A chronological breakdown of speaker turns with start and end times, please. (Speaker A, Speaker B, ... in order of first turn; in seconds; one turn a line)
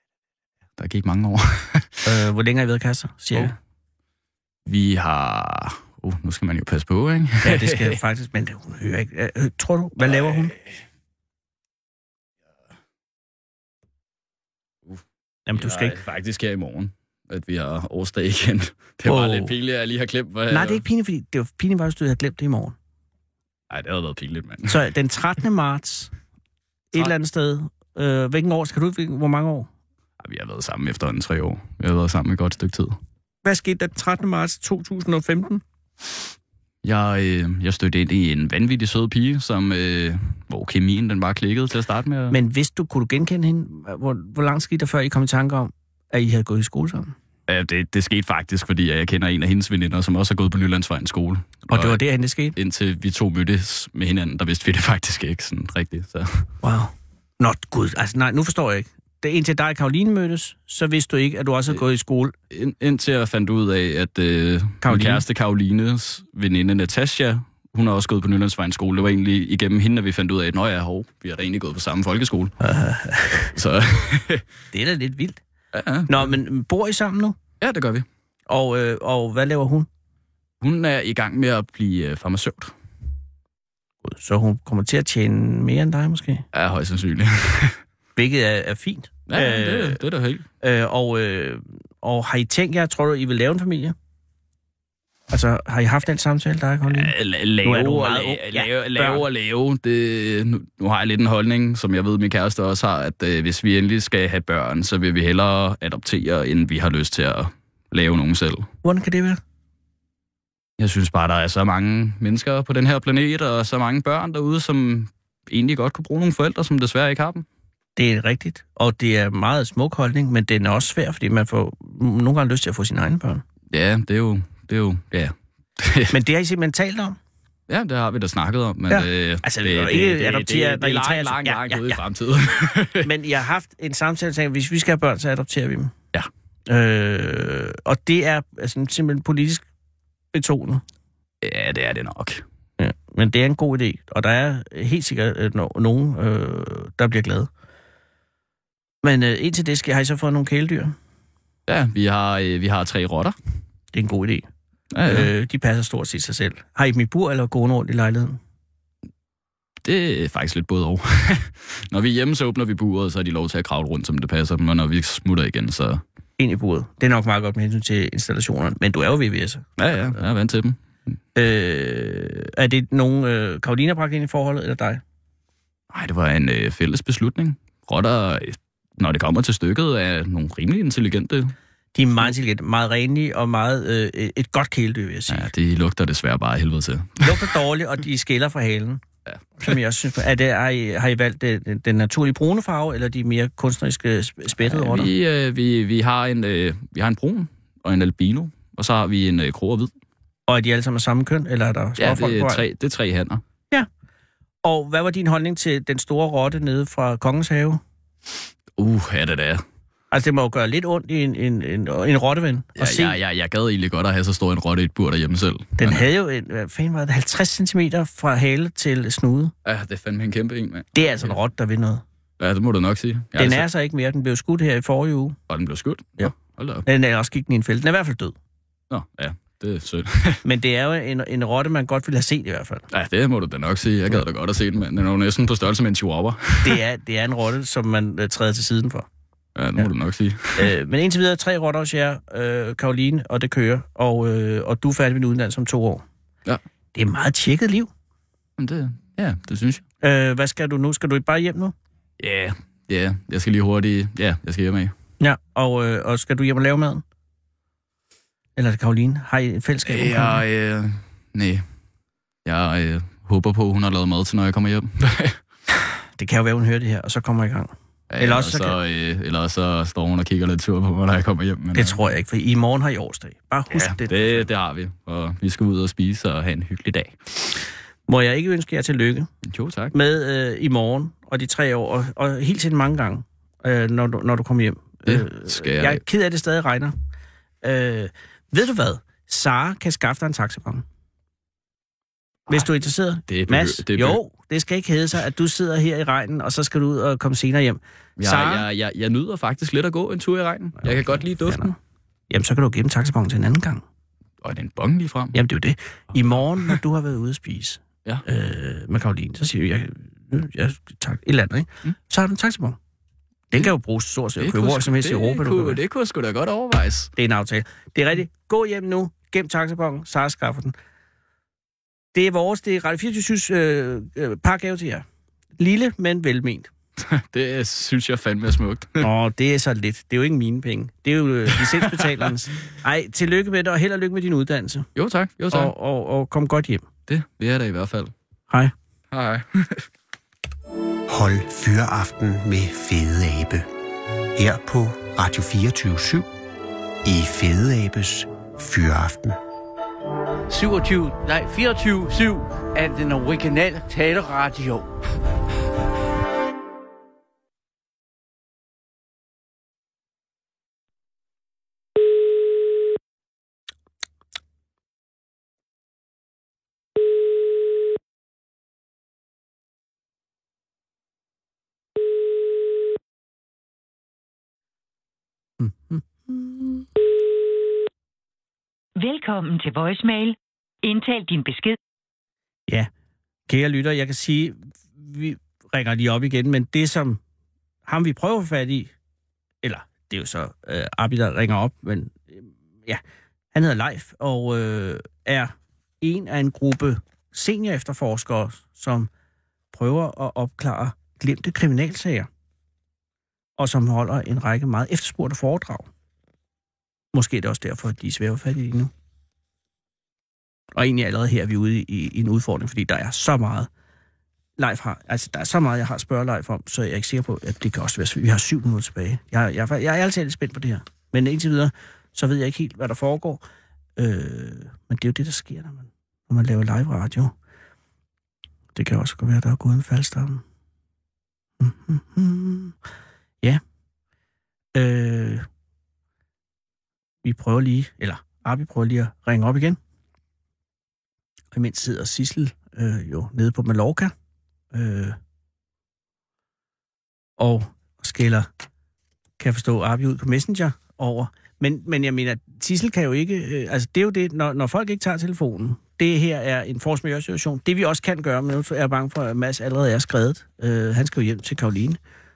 Speaker A: 0.8-2.1
Speaker B: 2.0-3.5
Speaker A: 4.7-8.0
Speaker B: 7.4-10.5
Speaker A: 10.0-10.6
Speaker B: 15.5-16.0
Speaker A: 15.5-20.8
Speaker B: 19.0-19.5
Speaker B: 20.5-22.7
Speaker A: 23.7-24.8
Speaker B: 24.7-26.1
Speaker B: 26.9-29.7
Speaker A: 30.2-33.0
Speaker B: 33.4-35.6
Speaker A: 36.8-42.4
Speaker B: 42.3-47.1
Speaker A: 47.5-52.0
Speaker B: 51.7-52.5
Speaker A: 52.5-56.5
Speaker B: 56.6-62.3
Speaker A: 62.5-72.5
Speaker B: 64.8-65.2
Speaker B: 72.6-73.5
Speaker A: 73.5-74.5
Speaker B: 74.7-75.4
Speaker A: 75.7-76.3
Speaker B: 76.1-77.4
Speaker A: 77.6-78.0
Speaker B: 78.5-79.9
Speaker A: 80.6-82.7
Speaker B: 84.0-86.4
Speaker A: 86.5-87.8
Speaker B: 88.2-90.0
Speaker A: 89.3-90.5
Speaker B: 90.6-93.9
Speaker B: 95.3-97.1
Speaker A: 96.9-108.7
Speaker B: 97.6-99.2
Speaker B: 108.8-109.4
Speaker A: 110.8-117.4
Speaker B: 118.0-123.4
Speaker A: 123.7-126.1
Speaker B: 126.1-127.2
Speaker A: 127.7-133.1
Speaker B: 128.9-132.0
Speaker B: 133.0-135.9
Speaker B: 136.7-139.6
Speaker B: 140.3-140.8
Speaker A: 141.4-142.4
Speaker B: 142.8-147.5
Speaker B: 149.0-150.9
Speaker A: 151.7-153.3
Speaker B: 153.9-154.4
Speaker A: 154.9-155.3
Speaker B: 155.1-158.4
Speaker A: 159.8-166.0
Speaker B: 166.4-169.7
Speaker A: 169.8-170.8
Speaker B: 171.4-175.0
Speaker A: 175.9-181.5
Speaker B: 181.9-185.5
Speaker A: 185.3-187.4
Speaker B: 187.2-189.0
Speaker A: 189.3-189.7
Speaker B: 189.6-195.1
Speaker A: 194.6-199.9
Speaker B: 200.5-202.6
Speaker A: 202.0-203.4
Speaker B: 204.6-207.8
Speaker A: 208.8-209.6
Speaker B: 210.1-213.2
Speaker A: 212.8-216.1
Speaker B: 215.8-219.5
Speaker A: 219.6-221.4
Speaker B: 220.9-222.0
Speaker A: 222.4-223.7
Speaker B: 223.4-225.4
Speaker A: 225.5-226.9
Speaker B: 226.9-228.3
Speaker A: 228.9-230.4
Speaker B: 230.4-232.9
Speaker A: 232.9-236.8
Speaker B: 236.6-239.1
Speaker A: 239.6-240.7
Speaker B: 240.6-246.0
Speaker B: 246.9-247.9
Speaker A: 248.6-249.8
Speaker B: 250.0-251.7
Speaker A: 252.2-254.9
Speaker B: 255.2-257.0
Speaker B: 258.6-260.4
Speaker A: 259.9-261.6
Speaker A: 262.4-265.4
Speaker B: 266.2-268.8
Speaker A: 268.1-272.0
Speaker B: 271.7-274.5
Speaker A: 273.7-277.5
Speaker B: 278.1-279.3
Speaker A: 279.4-279.9
Speaker B: 279.9-286.9
Speaker A: 285.1-286.0
Speaker B: 287.6-290.8
Speaker B: 292.5-298.6
Speaker A: 293.3-294.2
Speaker A: 298.2-301.7
Speaker B: 300.8-301.7
Speaker B: 302.3-303.8
Speaker A: 304.4-305.4
Speaker B: 305.3-312.8
Speaker B: 313.5-315.8
Speaker A: 314.4-317.1
Speaker B: 317.2-320.7
Speaker B: 322.1-325.0
Speaker B: 325.6-326.7
Speaker A: 327.0-329.1
Speaker B: 329.0-334.9
Speaker A: 331.5-332.3
Speaker A: 334.9-335.7
Speaker B: 335.5-336.9
Speaker A: 337.1-338.1
Speaker A: 339.1-339.8
Speaker C: 341.1-343.7
Speaker C: 344.4-346.3
Speaker C: 347.0-349.4
Speaker D: 350.5-354.9
Speaker B: 375.6-376.9
Speaker E: 378.9-381.8
Speaker B: 383.5-387.2
Speaker B: 387.9-388.9
Speaker B: 389.6-393.0
Speaker B: 393.5-399.1
Speaker B: 399.7-402.3
Speaker B: 403.6-405.9
Speaker B: 407.1-408.9
Speaker B: 410.7-413.7
Speaker B: 414.6-423.4
Speaker B: 424.0-427.3
Speaker B: 428.8-430.4
Speaker B: 431.6-432.7
Speaker B: 434.7-435.4
Speaker B: 437.2-439.8
Speaker B: 441.5-444.1
Speaker B: 444.7-445.2
Speaker B: 447.4-448.5
Speaker B: 449.4-462.0